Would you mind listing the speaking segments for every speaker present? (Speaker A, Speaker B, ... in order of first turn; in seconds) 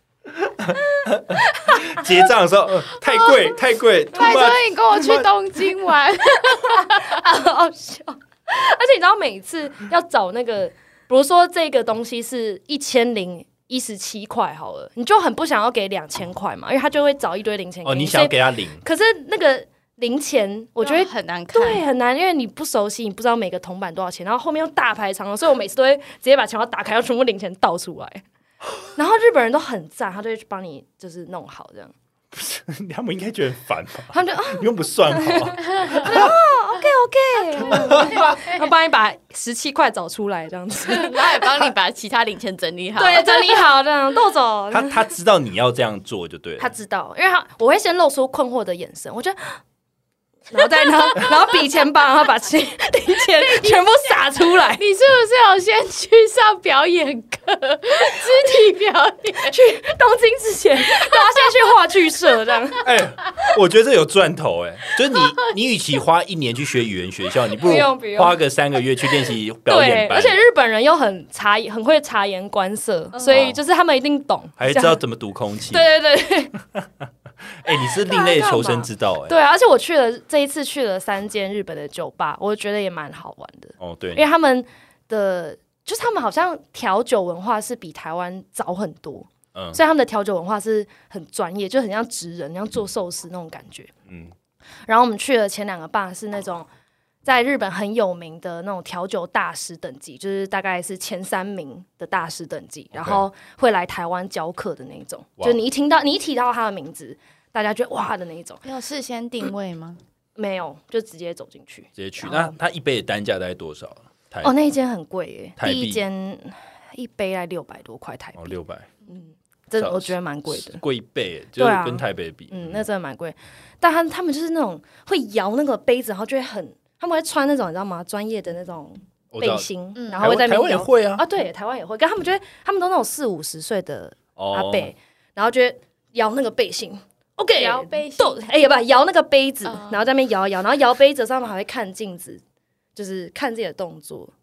Speaker A: 0.3-5.3, 17.8-18.8, 32.3-36.4, 37.7-38.4, 44.7-46.7, 62.8-70.4, 73.3-73.6, 74.6-75.9, 77.6-79.3, 83.8-84.2, 89.5-89.8, 102.9-103.2, 112.0-114.5, 115.6-116.0, 118.3-118.9, 119.8-122.8, 129.3-129.7, 130.2-131.2, 134.4-134.9
Speaker B: 0.9-2.0, 6.4-28.2, 28.9-31.9, 34.1-41.7, 42.9-45.0, 46.6-49.6, 50.5-54.8, 59.4-62.9, 67.6-68.4, 69.7-75.0, 75.7-76.5, 77.8-93.9, 94.9-96.7, 97.2-108.6, 110.4-112.5, 114.4-118.5, 119.1-120.8, 121.6-142.4, 142.9-144.3
Speaker C: 4.1-7.2, 20.8-21.9, 37.8-38.4, 40.9-43.6, 53.4-59.5, 61.1-61.4, 108.6-110.0, 129.9-130.3, 137.6-138.4, 139.7-140.0